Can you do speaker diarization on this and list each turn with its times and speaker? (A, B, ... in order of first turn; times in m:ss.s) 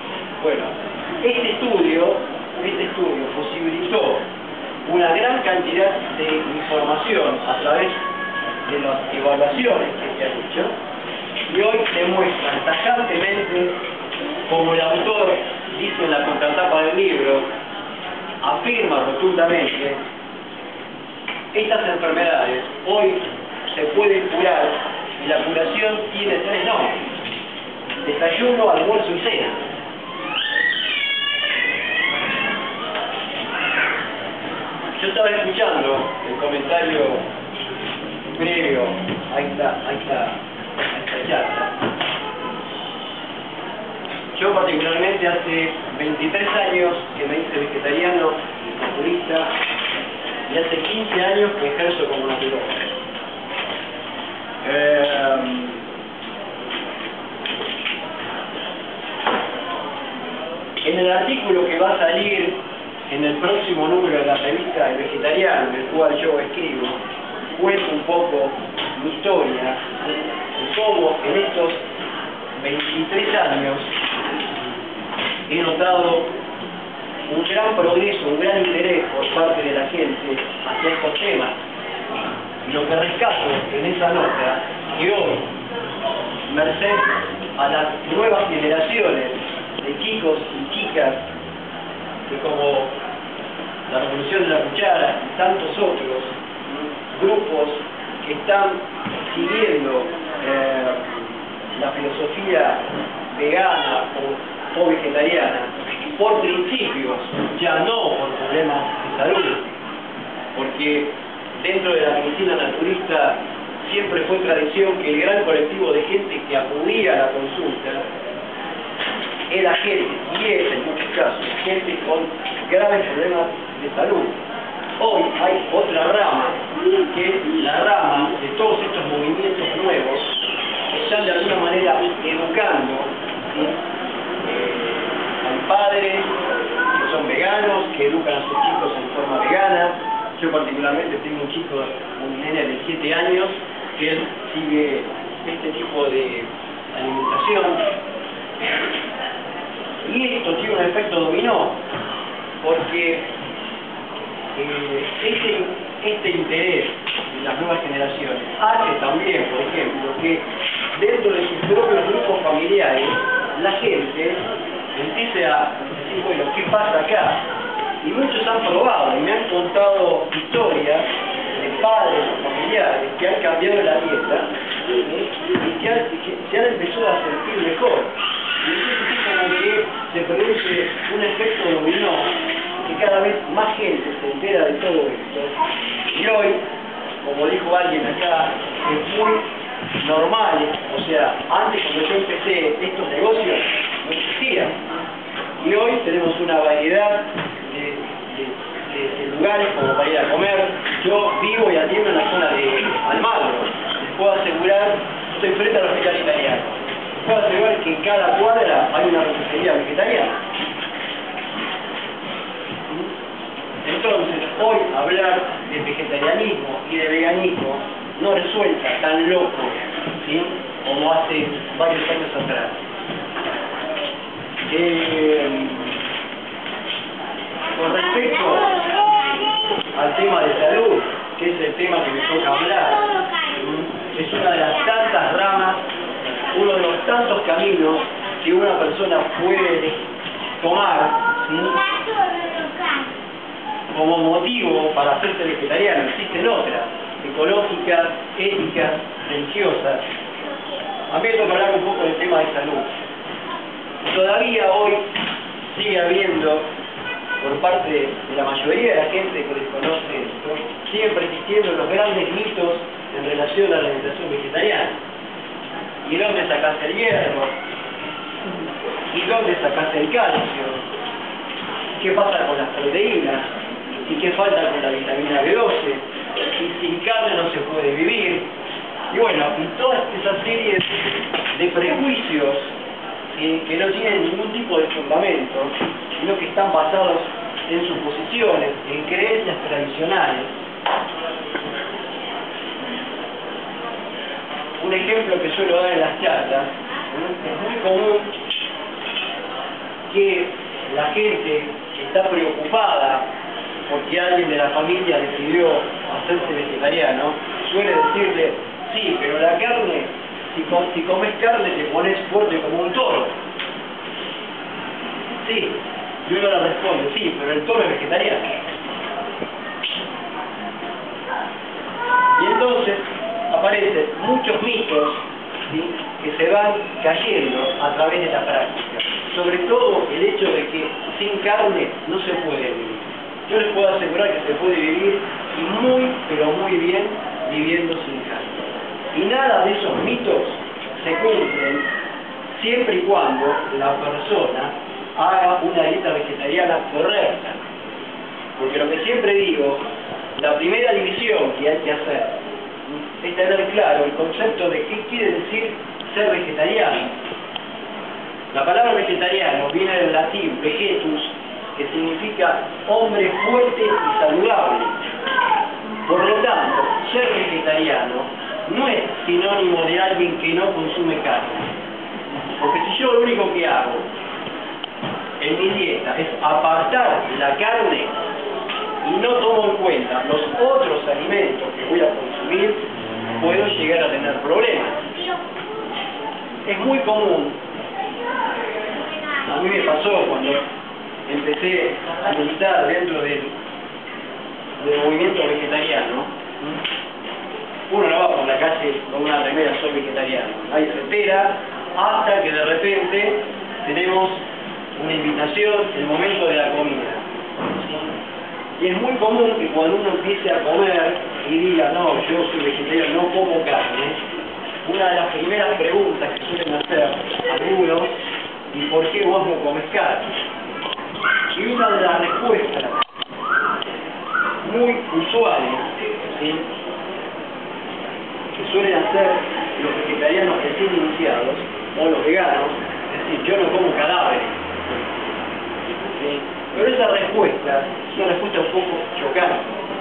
0:00.4-0:04.2 A
0:04.9-0:08.0 A
0:08.6-0:10.8 A
0:11.5-0:13.8 A
0:14.5-0:17.5 A
0:18.4-0:20.0 A
0:21.5-0:27.0 A
0:28.0-0:29.6 A
0:35.0-0:37.2 A
0:38.3-0:40.4 A
0:40.9-0:41.7 A
0:44.3-0:49.5 A
0:50.5-0:52.9 A
0:54.6-0:55.8 A
1:00.8-1:07.0 A
1:07.6-1:11.8 A
1:12.6-1:13.9 A
1:15.5-1:16.3 A
1:17.3-1:21.6 A
1:22.6-1:25.5 A
1:26.5-1:31.3 A
1:32.3-1:32.9 A
1:33.9-1:42.8 A
1:43.3-1:49.6 A
1:50.6-1:58.0 A
1:59.5-2:04.4 A
2:05.0-2:10.3 A
2:10.9-2:13.8 A
2:14.4-2:16.3 A
2:16.9-2:27.8 A
2:30.0-2:31.8 A
2:32.6-2:33.3 A
2:34.6-2:44.4 A
2:44.9-2:47.4 A
2:48.0-3:05.6 A
3:06.1-3:06.6 A
3:07.2-3:09.5 A
3:10.0-3:14.8 A
3:15.6-3:30.4 A
3:33.8-3:42.8 A
3:44.7-3:46.0 A
3:47.7-3:48.8 A
3:49.9-3:55.8 A
3:56.5-4:00.0 A
4:00.6-4:01.8 A
4:03.9-4:10.1 A
4:11.1-4:12.9 A
4:14.1-4:15.1 A
4:15.6-4:16.7 A
4:17.4-4:25.0 A
4:26.0-4:27.5 A
4:29.1-4:30.8 A
4:32.0-4:38.5 A
4:39.1-4:40.9 A
4:41.5-4:42.7 A
4:43.3-4:50.5 A
4:54.8-4:58.3 A
5:00.1-5:03.3 A
5:03.9-5:13.3 A
5:15.4-5:18.5 A
5:22.4-5:38.6 A
5:39.1-5:41.9 A
5:42.5-5:47.6 A
5:48.6-5:49.8 A
5:50.4-5:52.4 A
5:52.9-5:57.2 A
5:58.5-6:05.0 A
6:06.1-6:11.7 A
6:12.5-6:14.1 A
6:15.4-6:18.2 A
6:19.0-6:22.9 A
6:23.4-6:25.0 A
6:26.6-6:27.6 A
6:29.4-6:30.6 A
6:31.3-6:33.5 A
6:34.8-6:36.8 A
6:37.9-6:44.4 A
6:45.0-6:47.2 A
6:47.7-6:48.1 A
6:48.8-6:54.2 A
6:54.8-6:58.1 A
6:58.7-7:00.3 A
7:01.5-7:03.0 A
7:04.6-7:06.7 A
7:08.6-7:14.6 A
7:16.1-7:19.7 A